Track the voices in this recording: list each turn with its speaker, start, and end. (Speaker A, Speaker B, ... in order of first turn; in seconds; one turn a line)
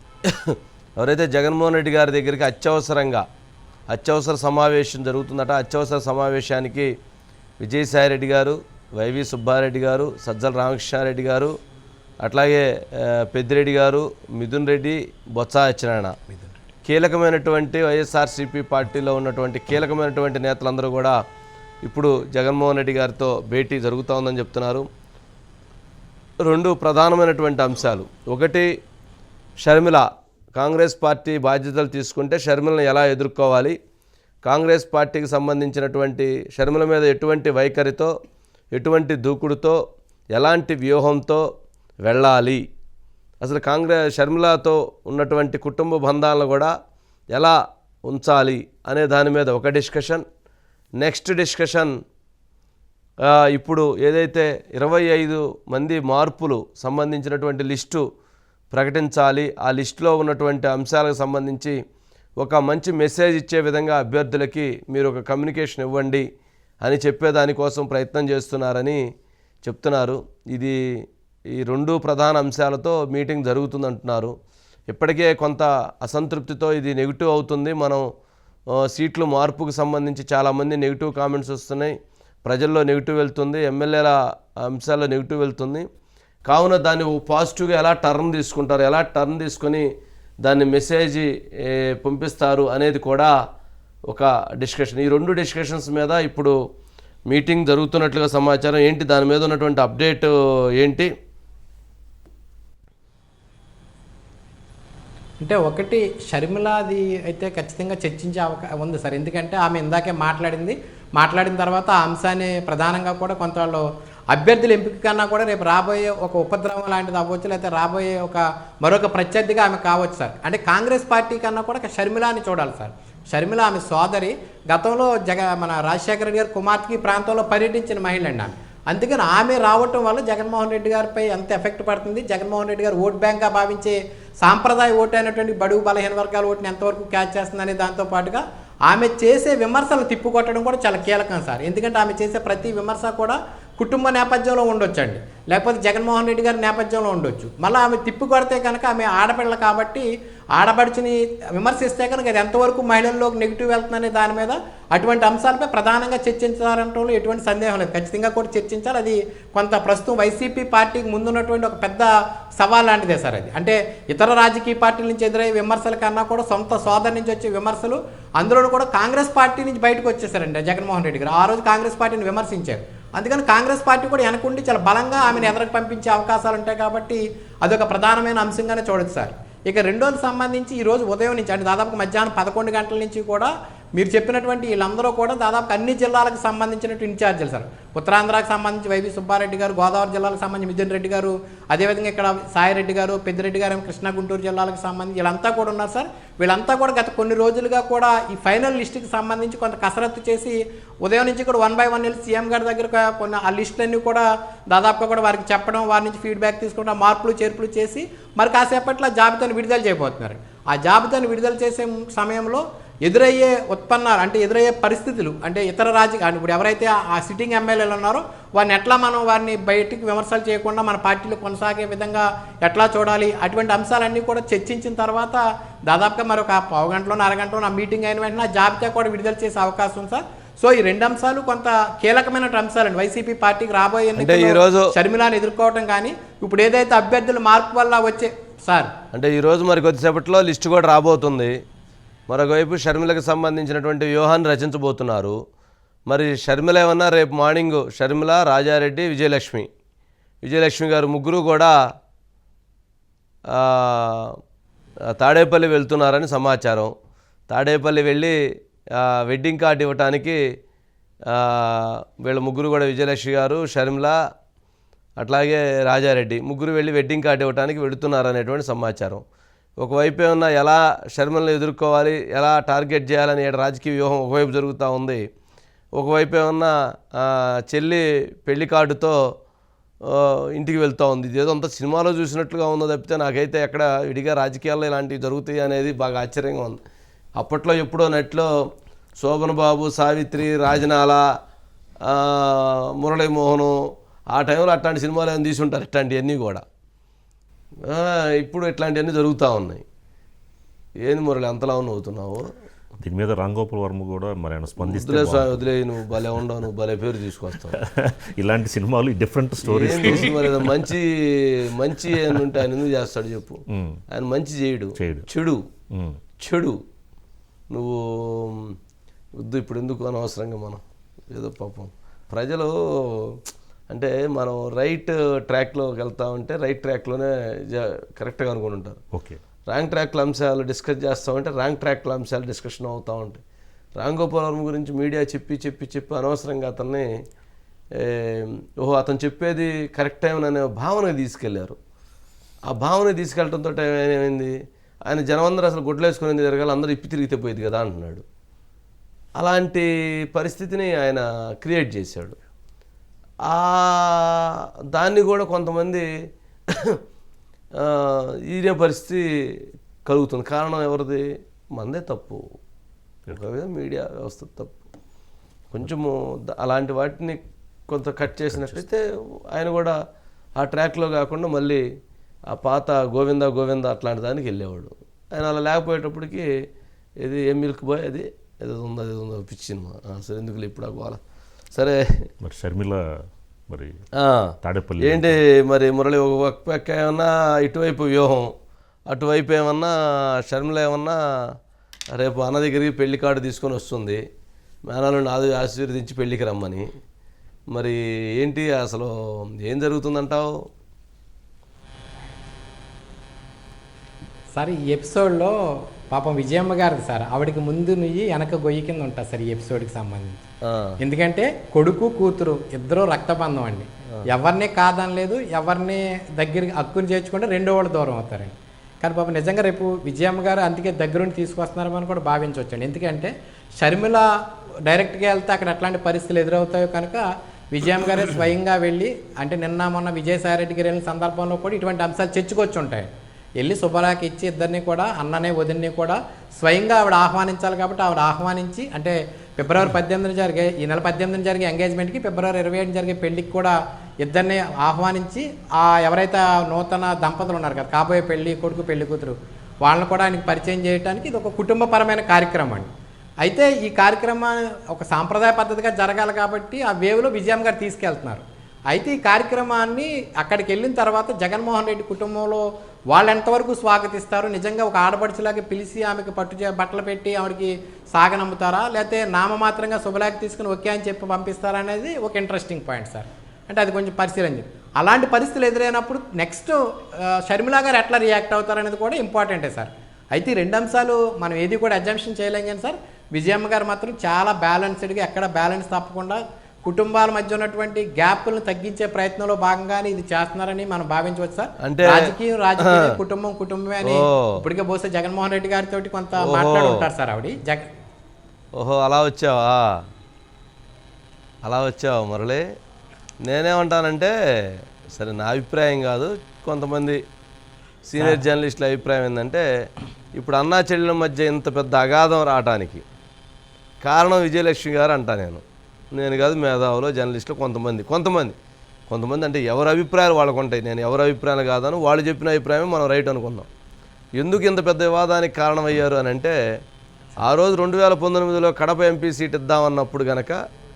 Speaker A: 0.3-3.2
Speaker A: 3.9-6.9
Speaker A: 7.6-11.5
Speaker A: 12.2-16.2
Speaker A: 16.8-21.1
Speaker A: 21.8-24.9
Speaker A: 26.4-28.7
Speaker A: 29.6-30.0
Speaker A: 30.6-33.8
Speaker A: 34.4-38.1
Speaker A: 38.7-39.8
Speaker A: 40.3-41.4
Speaker A: 42.0-42.6
Speaker A: 43.4-46.7
Speaker A: 47.3-50.2
Speaker A: 51.0-51.9
Speaker A: 53.3-58.0
Speaker A: 58.7-61.8
Speaker A: 62.4-66.2
Speaker A: 66.8-69.0
Speaker A: 69.6-70.8
Speaker A: 71.5-74.3
Speaker A: 74.9-78.0
Speaker A: 78.9-85.9
Speaker A: 86.5-89.8
Speaker A: 90.4-93.3
Speaker A: 94.1-96.5
Speaker A: 97.3-101.1
Speaker B: 105.4-238.9
Speaker A: 234.2-234.9
Speaker A: 239.1-241.5
Speaker A: 242.3-245.3
Speaker A: 246.1-249.7
Speaker A: 250.4-251.8
Speaker A: 253.5-254.3
Speaker A: 255.2-256.9
Speaker A: 257.5-258.4
Speaker A: 258.9-260.4
Speaker A: 261.3-264.1
Speaker A: 265.2-269.2
Speaker A: 269.8-275.2
Speaker A: 275.9-279.2
Speaker A: 280.1-286.8
Speaker A: 287.4-288.5
Speaker A: 289.2-291.2
Speaker A: 292.1-293.8
Speaker A: 294.3-296.6
Speaker A: 297.9-299.8
Speaker A: 301.0-302.4
Speaker C: 303.0-305.7
Speaker A: 304.8-307.8
Speaker C: 307.7-310.9
Speaker A: 309.6-315.6
Speaker C: 313.7-314.0
Speaker C: 315.0-315.2
Speaker C: 315.9-316.2
Speaker A: 316.4-316.8
Speaker A: 317.7-318.7
Speaker A: 319.4-323.4
Speaker A: 323.9-329.0
Speaker C: 329.1-329.4
Speaker A: 329.7-333.4
Speaker A: 334.0-337.1
Speaker A: 338.0-341.8
Speaker A: 342.7-344.5
Speaker A: 345.1-348.2
Speaker A: 349.4-352.4
Speaker A: 353.5-356.1
Speaker A: 356.7-357.0
Speaker A: 357.8-362.4
Speaker A: 363.3-364.8
Speaker A: 365.7-369.9
Speaker C: 368.5-368.8
Speaker A: 370.6-371.8
Speaker A: 372.5-376.5
Speaker A: 377.2-381.2
Speaker A: 381.7-382.3
Speaker C: 382.4-383.0
Speaker C: 383.7-384.0
Speaker A: 384.2-388.5
Speaker C: 384.6-385.4
Speaker A: 389.1-391.2
Speaker A: 392.1-394.2
Speaker A: 394.9-396.9
Speaker A: 397.7-400.5
Speaker B: 404.5-405.5
Speaker B: 406.1-410.4
Speaker A: 410.6-410.9
Speaker B: 411.0-424.2
Speaker B: 424.9-433.1
Speaker B: 433.6-452.9
Speaker B: 453.4-476.8
Speaker B: 477.3-497.9
Speaker A: 491.8-493.1
Speaker A: 494.0-494.6
Speaker A: 496.4-497.0
Speaker A: 498.8-500.0
Speaker A: 501.6-502.6
Speaker A: 503.4-504.3
Speaker A: 505.1-507.2
Speaker A: 508.1-509.6
Speaker A: 510.3-513.0
Speaker A: 514.0-515.6
Speaker A: 516.1-518.5
Speaker A: 519.1-523.7
Speaker A: 524.4-526.5
Speaker A: 527.4-530.6